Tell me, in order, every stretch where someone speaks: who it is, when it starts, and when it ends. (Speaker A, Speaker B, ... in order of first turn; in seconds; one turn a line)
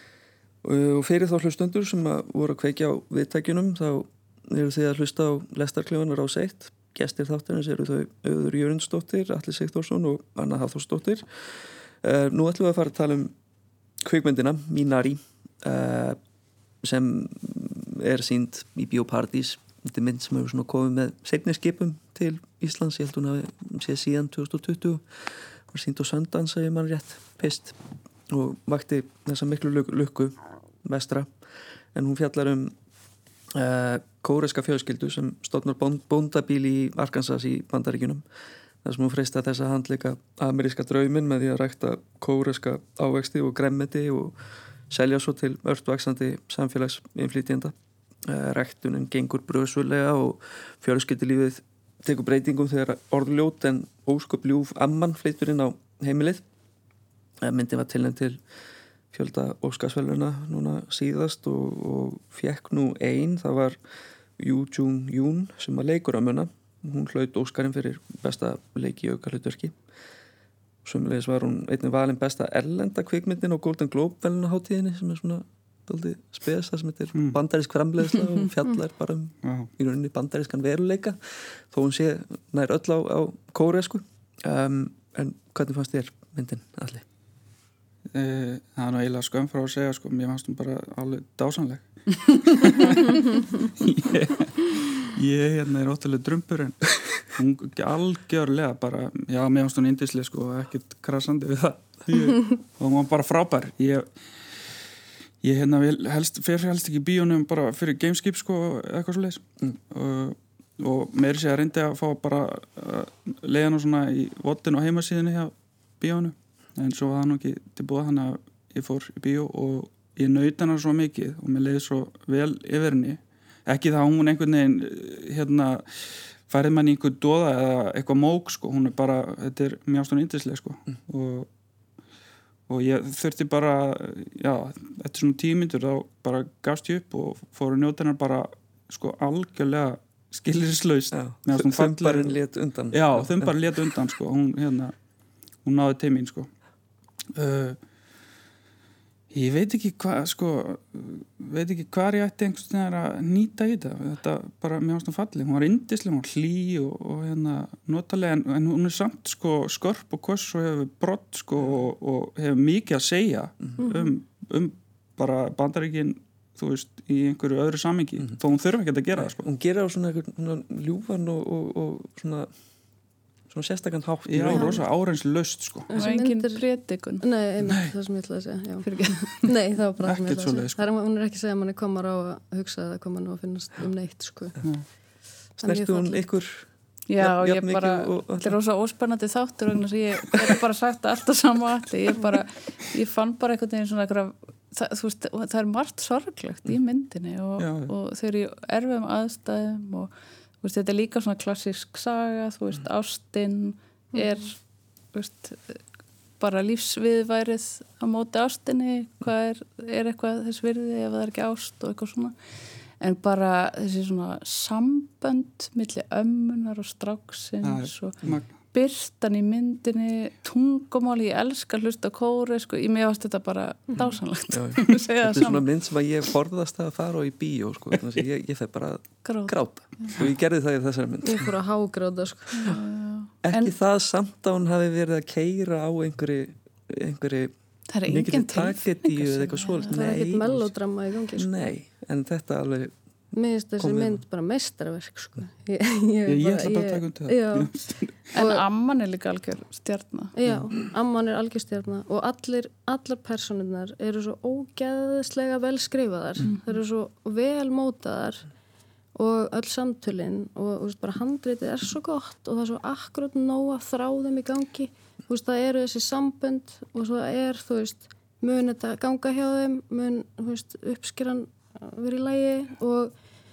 Speaker A: 0.6-13.3
Speaker A: 14.0-16.2
Speaker A: 16.8-27.8
Speaker A: 28.3-31.3
Speaker A: 31.9-32.7
Speaker A: 33.5-38.2
Speaker A: 38.8-44.3
Speaker A: 44.9-47.7
Speaker A: 48.2-56.4
Speaker A: 57.4-58.4
Speaker A: 59.1-63.8
Speaker A: 64.4-69.8
Speaker A: 70.8-87.0
Speaker B: 79.4-79.7
Speaker B: 88.1-104.2
Speaker B: 105.4-131.5
Speaker B: 132.7-142.4
Speaker A: 141.1-144.1
Speaker B: 142.9-144.9
Speaker B: 145.6-146.5
Speaker B: 147.3-147.8
Speaker B: 149.3-169.4
Speaker C: 163.8-164.1
Speaker A: 169.1-172.5
Speaker A: 173.5-174.8
Speaker B: 174.3-176.0
Speaker C: 174.5-174.8
Speaker C: 175.9-184.6
Speaker D: 175.9-177.2
Speaker D: 178.8-179.5
Speaker B: 180.0-180.8
Speaker A: 185.6-188.6
Speaker C: 185.6-186.3
Speaker D: 187.1-200.1
Speaker A: 190.3-190.6
Speaker B: 197.6-197.9
Speaker D: 200.6-204.6
Speaker D: 205.1-205.8
Speaker D: 206.4-212.3
Speaker D: 213.0-218.2
Speaker B: 217.6-218.5
Speaker D: 218.7-225.7
Speaker A: 224.0-231.5
Speaker D: 229.2-230.2
Speaker C: 231.2-232.6
Speaker D: 232.5-233.7
Speaker A: 233.4-237.5
Speaker D: 237.9-240.2
Speaker A: 238.1-240.7
Speaker C: 239.9-241.6
Speaker A: 241.3-242.9
Speaker C: 243.3-247.7
Speaker A: 243.8-244.2
Speaker B: 246.3-248.1
Speaker C: 248.3-248.6
Speaker D: 248.3-250.3
Speaker C: 250.3-258.5
Speaker C: 259.1-273.1